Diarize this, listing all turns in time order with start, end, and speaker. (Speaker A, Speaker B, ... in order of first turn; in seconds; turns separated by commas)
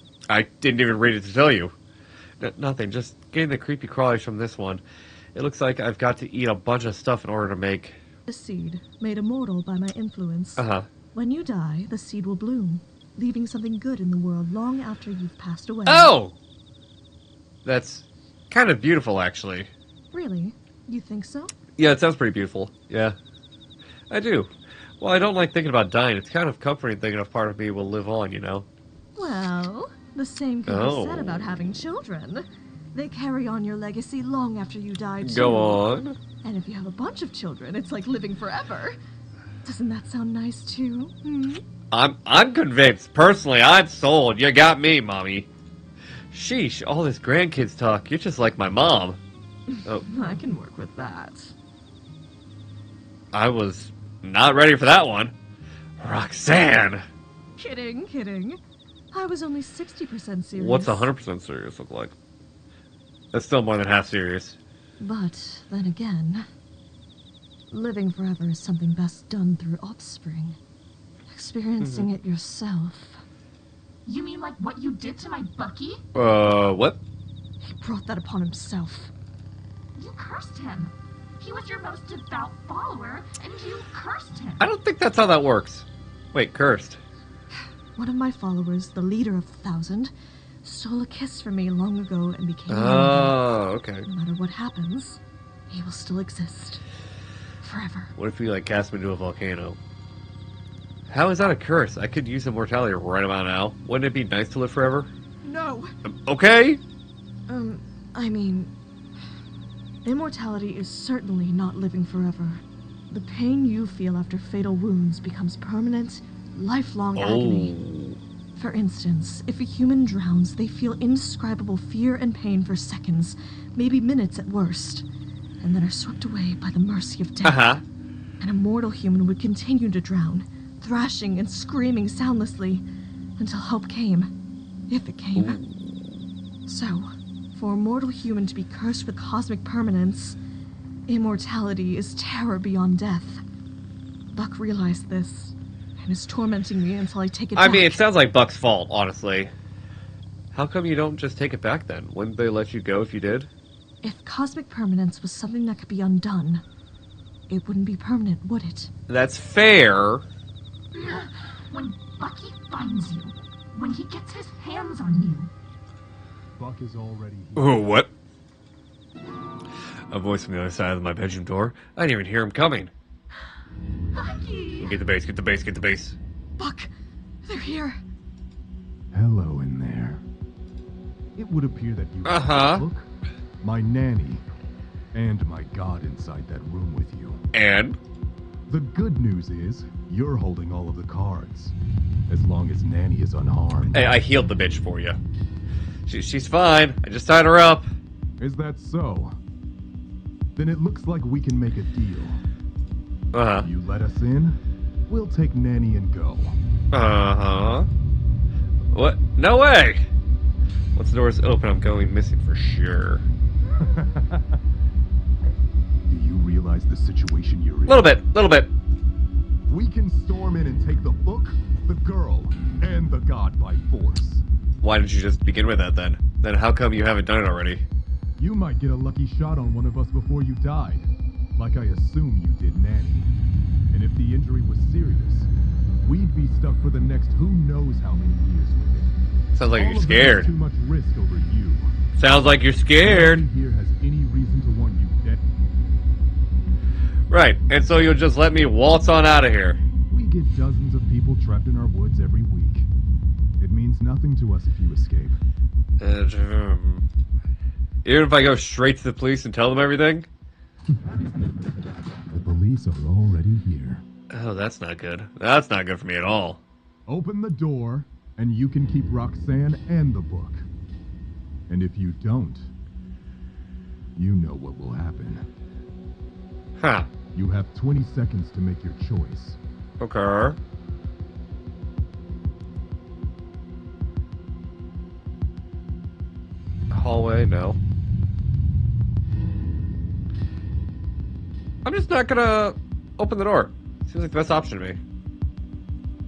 Speaker A: 0.3-1.7, Speaker A: 2.4-4.8, Speaker A: 5.3-8.0, Speaker B: 8.3-16.1, Speaker A: 10.6-10.9, Speaker A: 15.9-16.4, Speaker A: 17.6-19.7, Speaker B: 20.1-21.5, Speaker A: 21.8-23.2, Speaker A: 24.1-28.7, Speaker B: 29.2-35.8, Speaker A: 30.7-31.4, Speaker A: 35.2-36.2, Speaker B: 36.4-39.0, Speaker B: 39.6-41.6, Speaker A: 41.9-45.5, Speaker A: 46.3-49.2, Speaker B: 50.0-51.5, Speaker A: 53.3-55.4, Speaker A: 56.0-57.0, Speaker B: 57.6-58.6, Speaker B: 59.1-61.1, Speaker A: 60.6-62.1, Speaker A: 63.3-64.6, Speaker B: 65.0-66.5, Speaker B: 67.7-70.6, Speaker B: 71.3-73.2, Speaker A: 71.8-72.1, Speaker C: 74.1-76.0, Speaker A: 76.1-77.0, Speaker B: 77.6-79.1, Speaker C: 80.0-84.6, Speaker A: 84.6-87.0, Speaker B: 88.0-93.4, Speaker A: 92.7-94.1, Speaker B: 94.0-96.8, Speaker B: 97.6-98.1, Speaker A: 98.2-99.8, Speaker A: 101.1-105.1, Speaker B: 105.4-105.9, Speaker A: 106.0-106.8, Speaker B: 107.5-108.7, Speaker B: 110.0-117.8, Speaker A: 117.2-118.2, Speaker B: 118.5-125.1, Speaker B: 125.6-127.7, Speaker A: 127.4-127.8, Speaker B: 128.4-132.8, Speaker B: 133.4-134.3, Speaker B: 134.9-135.6, Speaker A: 135.4-136.2, Speaker B: 136.7-140.4, Speaker B: 141.1-143.4, Speaker B: 144.3-148.0, Speaker A: 147.6-149.5, Speaker A: 150.5-153.5, Speaker B: 154.0-156.6, Speaker B: 157.5-158.9, Speaker A: 159.1-160.2, Speaker C: 160.9-165.5, Speaker D: 166.6-167.8, Speaker A: 167.6-168.1, Speaker A: 170.1-172.9, Speaker C: 174.2-174.9, Speaker A: 174.8-176.2, Speaker B: 176.6-176.9, Speaker B: 177.4-178.0, Speaker D: 179.1-180.2, Speaker D: 181.4-183.1, Speaker A: 182.2-182.9, Speaker D: 183.6-184.4, Speaker D: 185.1-187.4, Speaker A: 187.5-188.0, Speaker D: 188.7-191.8, Speaker D: 192.3-194.2, Speaker A: 193.9-195.2, Speaker A: 196.1-197.9, Speaker D: 198.4-199.3, Speaker D: 200.6-202.4, Speaker A: 203.3-203.7, Speaker D: 203.6-206.6, Speaker A: 206.9-207.9, Speaker A: 208.9-210.1, Speaker A: 210.9-213.3, Speaker D: 213.8-214.6, Speaker D: 216.1-218.1, Speaker A: 217.9-218.7, Speaker D: 219.7-224.4, Speaker A: 224.8-227.8, Speaker D: 228.4-233.3, Speaker D: 233.9-235.5, Speaker D: 236.0-239.1, Speaker A: 239.6-240.5, Speaker D: 239.7-241.9, Speaker A: 242.2-243.4, Speaker D: 243.0-245.4, Speaker A: 247.3-249.8, Speaker D: 250.1-252.9, Speaker D: 253.6-255.4, Speaker A: 256.0-257.1, Speaker A: 258.1-260.3, Speaker D: 262.3-264.0, Speaker A: 264.3-266.6, Speaker D: 267.1-270.6, Speaker D: 271.7-272.7, Speaker D: 274.1-275.5, Speaker A: 276.8-277.1, Speaker D: 277.3-279.6, Speaker A: 280.0-280.6, Speaker A: 286.9-287.8, Speaker A: 291.9-295.0